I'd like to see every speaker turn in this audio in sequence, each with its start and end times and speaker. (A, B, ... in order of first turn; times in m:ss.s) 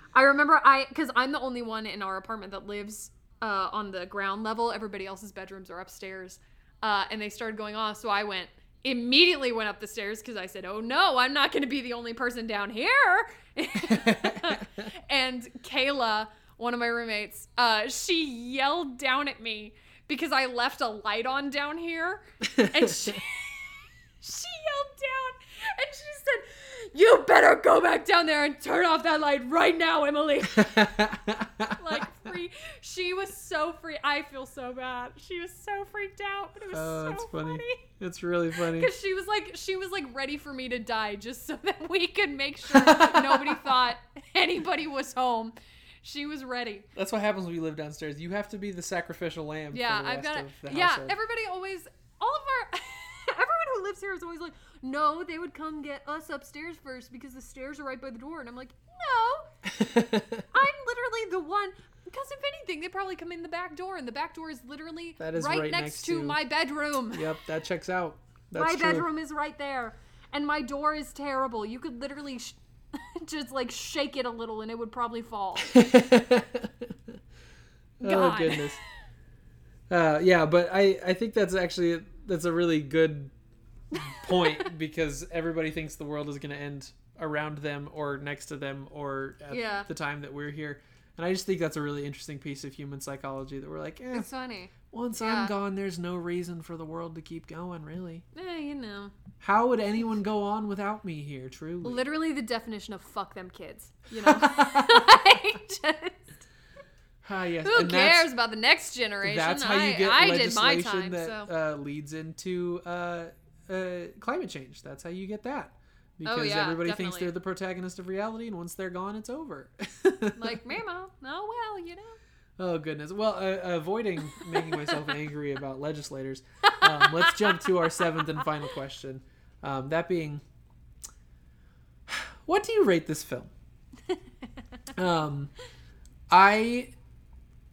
0:00.2-0:30.9 A
0:13.9-0:14.6 B
0:22.5-0:23.2 B
0:30.5-0:32.0 B
0:31.8-0:37.8 A
0:36.7-0:38.9 B
0:38.6-0:46.9 A
0:42.6-0:43.8 B
0:47.0-0:51.2 B
0:49.7-0:59.5 A
0:59.6-1:00.5 B
1:00.5-1:07.3 A
1:05.2-1:06.4 B
1:07.1-1:09.1 B
1:08.6-1:15.7 A
1:15.6-1:17.2 B
1:18.0-1:18.8 B
1:18.0-1:18.8 A
1:19.9-1:23.3 B
1:23.9-1:24.7 A
1:23.9-1:34.3 B
1:29.5-1:29.9 A
1:34.1-1:35.5 A
1:34.9-1:38.2 B
1:38.3-1:39.1 A
1:39.4-1:42.0 B
1:41.8-1:46.4 A
1:44.1-1:45.1 B
1:47.2-1:48.3 B
1:47.6-1:51.5 A
1:49.2-2:00.8 B
1:56.2-1:57.3 A
2:00.4-2:02.2 A
2:02.6-2:10.4 B
2:04.4-2:05.0 A
2:06.7-2:08.4 A
2:12.1-2:13.5 B
2:15.0-2:15.5 B
2:16.3-2:16.9 B